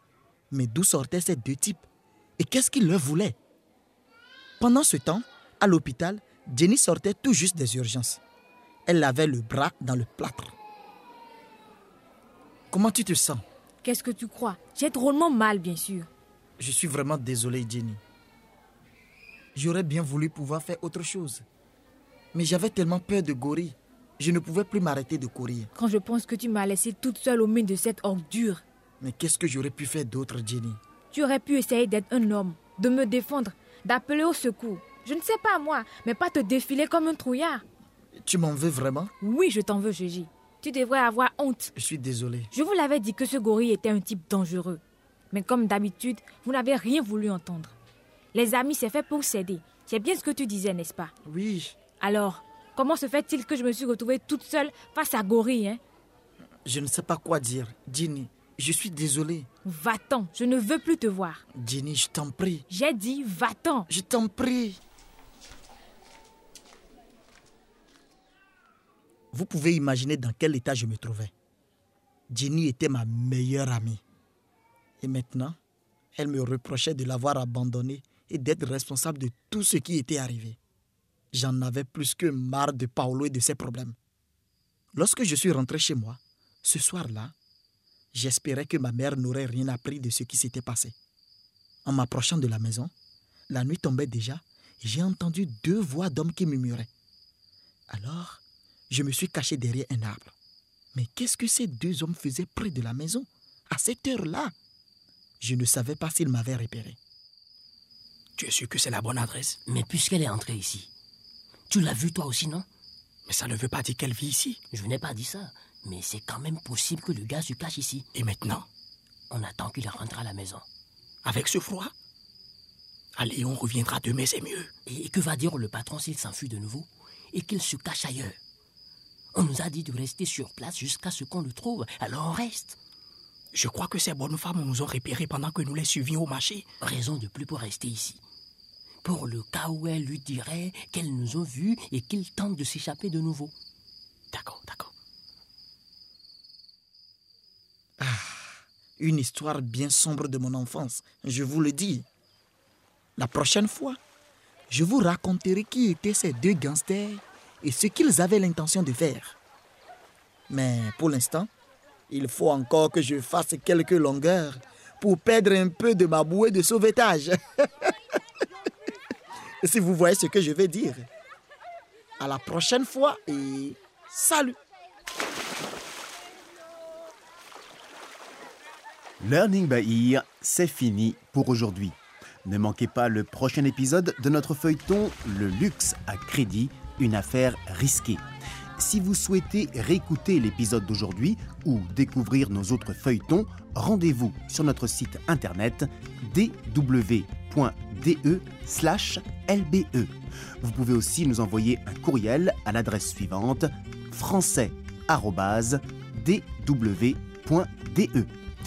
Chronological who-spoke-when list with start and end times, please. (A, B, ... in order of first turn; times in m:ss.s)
0:00.5-0:01.9 A
0:02.4-0:03.4 A
0:04.6-0:08.2 A
0:08.9-0:10.6 A
0:12.7-0:13.4 A
0:13.8-0:16.1 B
0:16.6-0:18.0 A
0:19.6-0:21.4 A
0:22.3-0:25.7 A
0:25.8-0:28.6 B
0:29.0-0:30.8 A
0:31.1-0:37.6 B
0:38.2-0:39.1 A
0:39.2-0:41.7 B
0:41.8-0:42.5 A
0:42.5-0:47.7 B
0:48.3-0:51.1 B
0:51.2-0:51.8 A
0:52.0-0:55.8 B
0:56.6-0:59.5 A
0:59.6-1:01.4 B
1:01.5-1:02.6 A
1:02.7-1:03.9 B
1:03.9-1:04.8 A
1:09.3-1:11.3 A
1:12.3-1:14.0 A
1:15.0-1:15.6 A
1:16.2-1:20.6 A
1:21.3-1:24.0 A
1:25.0-1:27.4 A
1:28.1-1:31.0 A
1:31.8-1:32.9 A
1:33.5-1:36.9 A
1:37.9-1:40.4 A
1:40.9-1:44.5 A
1:45.4-1:47.0 A
1:48.4-1:49.6 C
1:49.6-1:50.9 D
1:51.7-1:52.7 D
1:53.3-1:54.6 C
1:54.7-1:58.1 D
1:58.2-1:58.6 C
1:59.3-2:00.6 D
2:01.2-2:01.9 C
2:03.2-2:04.7 C
2:04.9-2:08.4 D
2:09.3-2:12.8 D
2:13.5-2:16.6 C
2:16.8-2:18.2 D
2:19.0-2:23.5 D
2:28.0-2:32.1 A
2:33.2-2:34.0 A
2:34.7-2:39.4 A
2:40.5-2:41.5 A
2:42.1-2:47.9 A
2:49.6-2:51.1 A
2:52.2-2:54.6 A
2:59.2-3:08.2 E
3:08.8-3:28.3 E